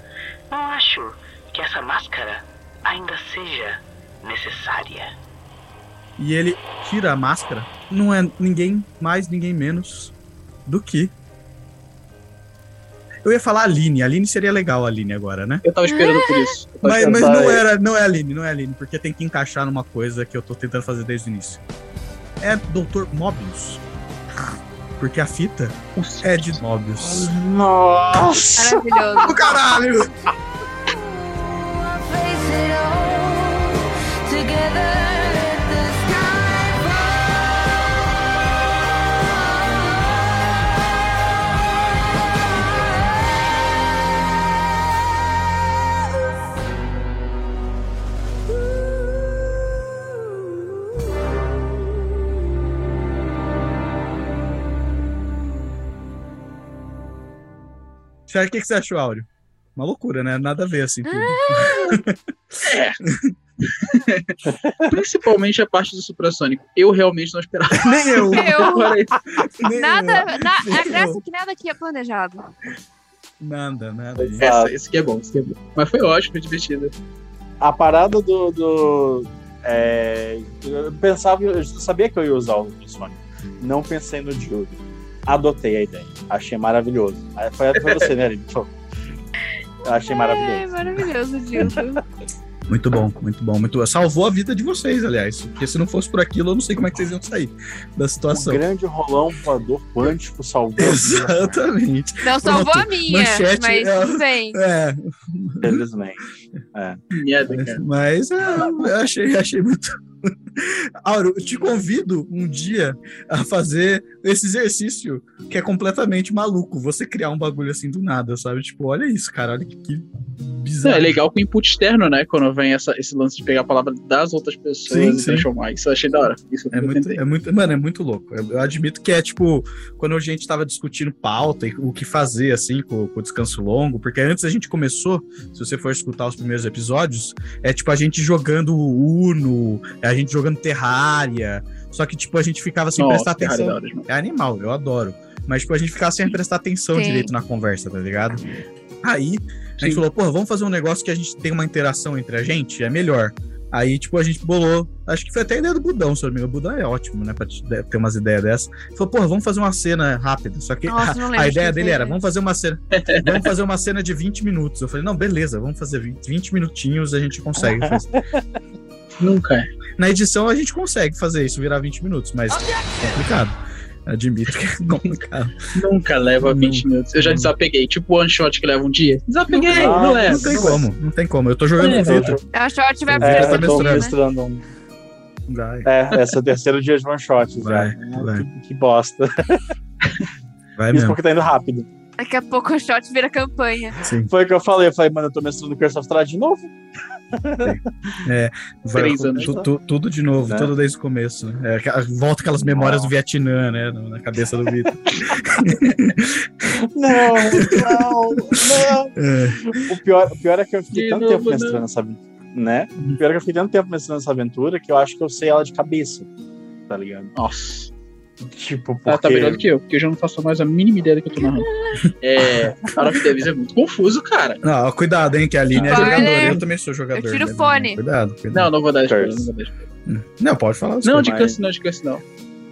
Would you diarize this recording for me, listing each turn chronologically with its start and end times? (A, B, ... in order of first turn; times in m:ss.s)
0:00.5-0:05.1 A
0:06.2-0:10.1 B
0:10.6-0:11.1 B
0:13.2-0:15.6 B
0:15.6-0:17.5 C
0:15.9-0:16.6 D
0:16.8-0:21.6 B
0:17.0-0:17.6 E
0:22.4-0:23.8 B
0:25.0-0:27.3 B
0:25.9-0:26.5 C
0:27.0-0:29.2 E
0:28.6-0:29.4 D
0:29.2-0:30.1 B
0:32.2-0:33.5 E
0:34.3-0:34.8 E
0:58.3-1:03.3 B
1:01.1-1:02.0 D
1:02.6-1:03.0 C
1:03.7-1:04.4 C
1:04.5-1:04.9 E
1:04.9-1:09.2 C
1:07.8-1:08.7 B
1:08.3-1:08.9 D
1:09.6-1:11.2 B
1:09.7-1:12.4 D
1:13.4-1:14.5 B
1:14.2-1:14.7 E
1:14.4-1:16.9 C
1:17.6-1:28.7 E
1:29.8-1:30.8 E
1:29.9-1:32.0 D
1:32.7-1:38.6 B
1:38.3-1:41.6 E
1:40.8-1:45.8 B
1:42.2-1:44.6 D
1:45.6-1:46.2 E
1:47.1-1:47.8 C
1:47.5-2:01.2 B
2:00.8-2:07.2 C
2:04.9-2:05.5 B
2:06.7-2:28.4 B
2:23.0-2:24.1 C
2:26.9-2:27.3 D
2:29.0-2:48.1 B
2:29.8-2:30.0 C
2:40.9-2:42.2 D
2:42.9-2:43.4 C
2:47.6-2:48.4 E
2:49.2-2:49.7 C
2:50.0-2:53.6 B
2:54.1-2:55.7 B
2:55.7-3:00.8 C
2:56.4-2:57.5 B
2:59.5-3:02.4 B
2:59.7-3:00.8 E
3:01.8-3:02.3 C
3:01.8-3:02.4 E
3:02.5-3:04.1 D
3:03.1-3:04.1 B
3:03.2-3:04.6 E
3:05.5-3:05.9 B
3:05.8-3:09.6 E
3:07.6-3:08.4 B
3:10.8-3:11.2 B
3:10.9-3:11.9 E
3:12.2-3:14.0 D
3:14.0-3:14.3 B
3:14.2-3:16.7 E
3:17.3-3:18.2 E
3:17.6-3:26.5 B
3:18.9-3:19.5 C
3:19.3-3:19.7 E
3:20.4-3:20.7 E
3:22.6-3:23.1 E
3:26.8-3:29.1 E
3:27.3-3:28.6 B
3:29.2-3:29.8 B
3:29.7-3:36.3 E
3:30.9-3:31.8 C
3:36.9-3:37.3 E
3:37.4-3:37.9 C
3:38.4-3:39.6 E
3:39.1-3:41.7 C
3:41.5-3:41.9 D
3:42.2-3:44.6 C
3:42.6-3:43.0 B
3:44.6-3:48.7 B
3:45.7-3:46.3 E
3:45.8-3:46.6 D
3:47.1-3:48.0 D
3:48.5-3:49.7 C
3:49.1-3:49.5 E
3:50.0-3:51.4 B
3:51.0-3:52.2 C
3:51.2-3:51.6 E